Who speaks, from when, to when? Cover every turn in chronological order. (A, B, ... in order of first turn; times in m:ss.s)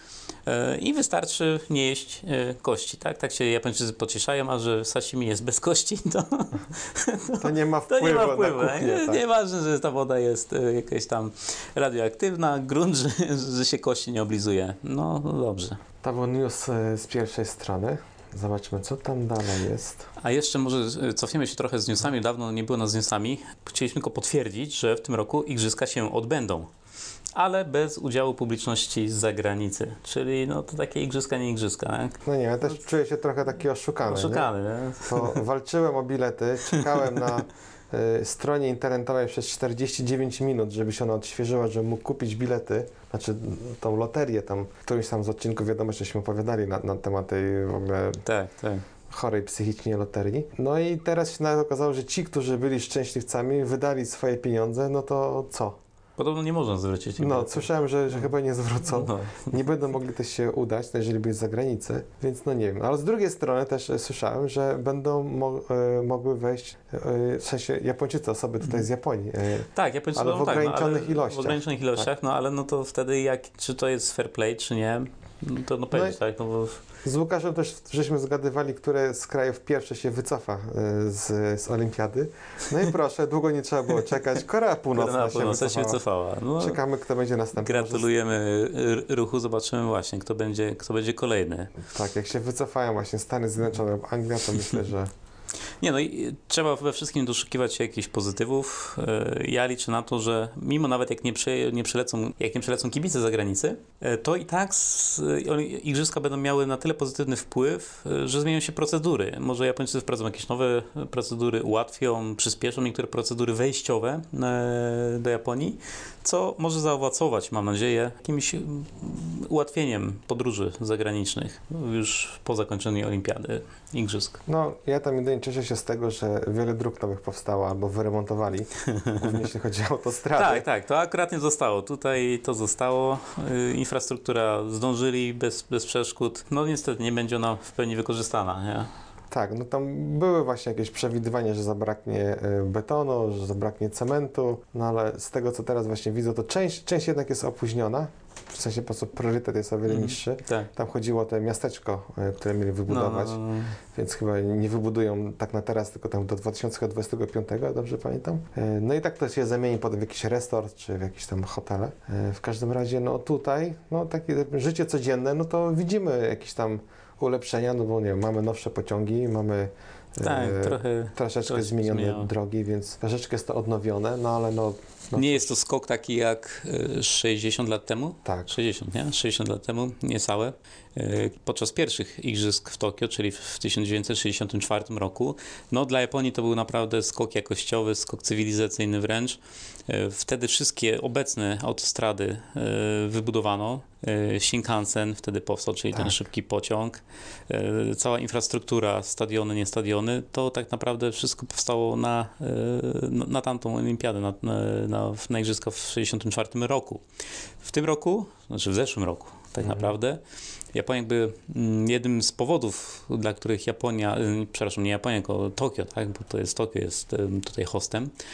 0:00.4-0:15.8 A
0:07.4-0:09.2 B
0:16.0-0:20.1 B
0:20.2-0:26.7 A
0:27.4-0:32.2 A
0:32.2-0:34.5 B
0:34.1-0:35.4 A
0:35.0-0:48.2 B
0:36.7-0:37.4 A
0:48.2-0:48.8 A
0:49.1-0:55.8 B
0:56.2-0:57.7 A
0:57.2-1:12.1 B
0:58.9-0:59.5 A
1:09.7-1:16.8 A
1:15.9-1:16.2 B
1:17.0-1:26.0 B
1:24.9-1:26.8 A
1:26.6-1:28.1 B
1:27.6-1:31.8 A
1:31.8-1:35.1 B
1:35.8-2:04.4 A
2:04.5-2:10.6 B
2:08.9-2:09.3 A
2:10.4-2:18.9 A
2:19.3-2:55.5 B
2:29.9-2:30.7 A
2:32.9-2:33.8 A
2:50.2-2:52.3 A
2:55.2-3:27.0 A
2:58.2-2:58.5 B
3:27.6-3:30.2 A
3:29.6-3:29.9 B
3:30.7-3:38.1 A